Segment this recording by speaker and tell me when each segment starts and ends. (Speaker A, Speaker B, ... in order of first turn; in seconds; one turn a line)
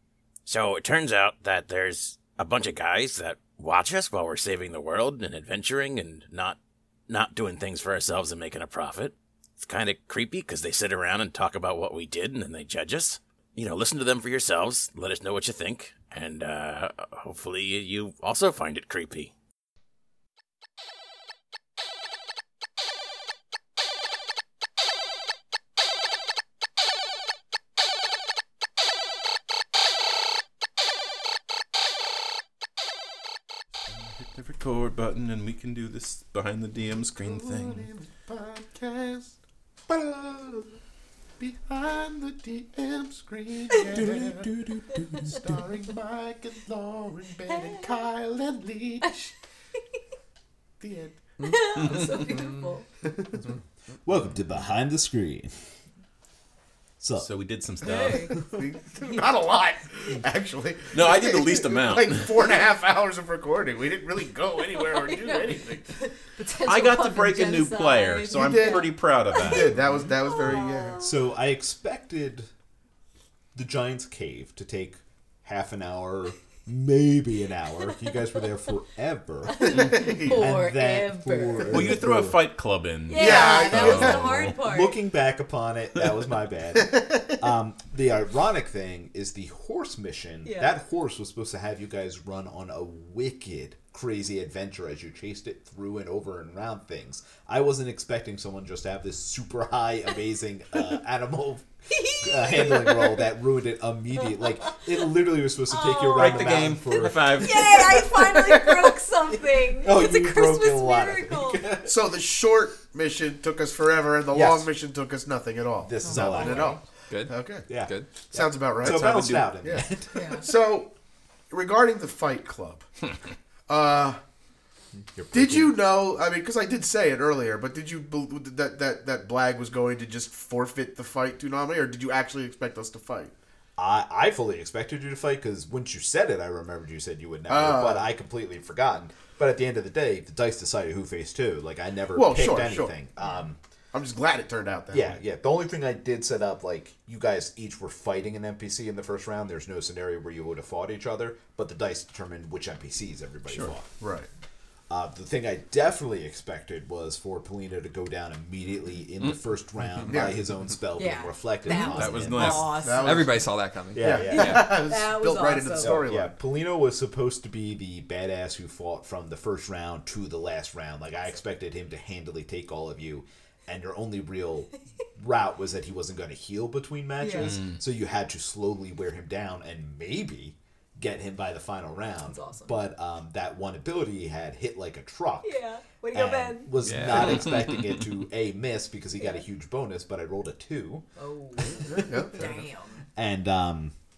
Speaker A: 0.5-19.3
Speaker B: 34.2-37.9
Speaker C: 37.2-39.3
Speaker C: 39.9-40.8
Speaker C: 41.4-44.5
Speaker D: 43.8-45.6
Speaker E: 45.0-45.4
Speaker C: 45.2-49.3
Speaker E: 47.5-47.8
Speaker C: 50.8-51.3
Speaker E: 51.4-52.9
Speaker B: 51.8-52.3
Speaker C: 53.1-53.5
Speaker D: 54.0-55.5
Speaker D: 57.0-57.3
Speaker B: 57.2-58.4
Speaker E: 57.8-59.3
Speaker C: 58.4-65.9
Speaker B: 60.9-62.5
Speaker E: 64.8-71.2
Speaker B: 66.6-69.9
Speaker C: 68.3-71.0
Speaker D: 71.0-72.5
Speaker D: 73.5-82.4
Speaker E: 79.5-82.0
Speaker C: 79.6-80.5
Speaker B: 81.6-84.6
Speaker E: 83.1-85.0
Speaker C: 83.1-84.3
Speaker D: 84.4-101.7
Speaker C: 86.8-87.4
Speaker E: 101.9-103.2
Speaker D: 102.2-108.4
Speaker E: 104.4-104.9
Speaker E: 105.7-111.7
Speaker B: 106.1-108.0
Speaker C: 108.4-108.8
Speaker D: 109.6-111.9
Speaker C: 111.8-117.7
Speaker D: 114.3-114.7
Speaker D: 115.8-116.8
Speaker E: 116.0-116.8
Speaker F: 117.1-118.1
Speaker D: 117.7-120.5
Speaker C: 118.3-120.9
Speaker B: 118.8-119.5
Speaker E: 120.1-120.5
Speaker C: 121.5-122.8
Speaker C: 123.7-124.2
Speaker D: 125.1-125.8
Speaker C: 125.3-133.3
Speaker D: 133.8-143.6
Speaker C: 137.5-138.1
Speaker C: 142.1-143.0
Speaker C: 143.9-145.2
Speaker D: 144.9-153.9
Speaker C: 154.0-154.3
Speaker D: 154.9-162.7
Speaker C: 160.1-160.4
Speaker E: 160.9-163.3
Speaker B: 161.7-162.8
Speaker F: 162.3-164.7
Speaker C: 162.8-163.4
Speaker D: 163.9-164.8
Speaker C: 164.0-166.3
Speaker E: 164.3-166.0
Speaker D: 165.8-185.6
Speaker E: 177.2-177.7
Speaker B: 177.4-177.7
Speaker E: 182.2-182.7
Speaker E: 185.4-186.7
Speaker D: 186.1-191.0
Speaker F: 186.8-187.5
Speaker E: 191.2-193.0
Speaker D: 191.7-192.5
Speaker C: 191.8-192.6
Speaker D: 193.2-193.9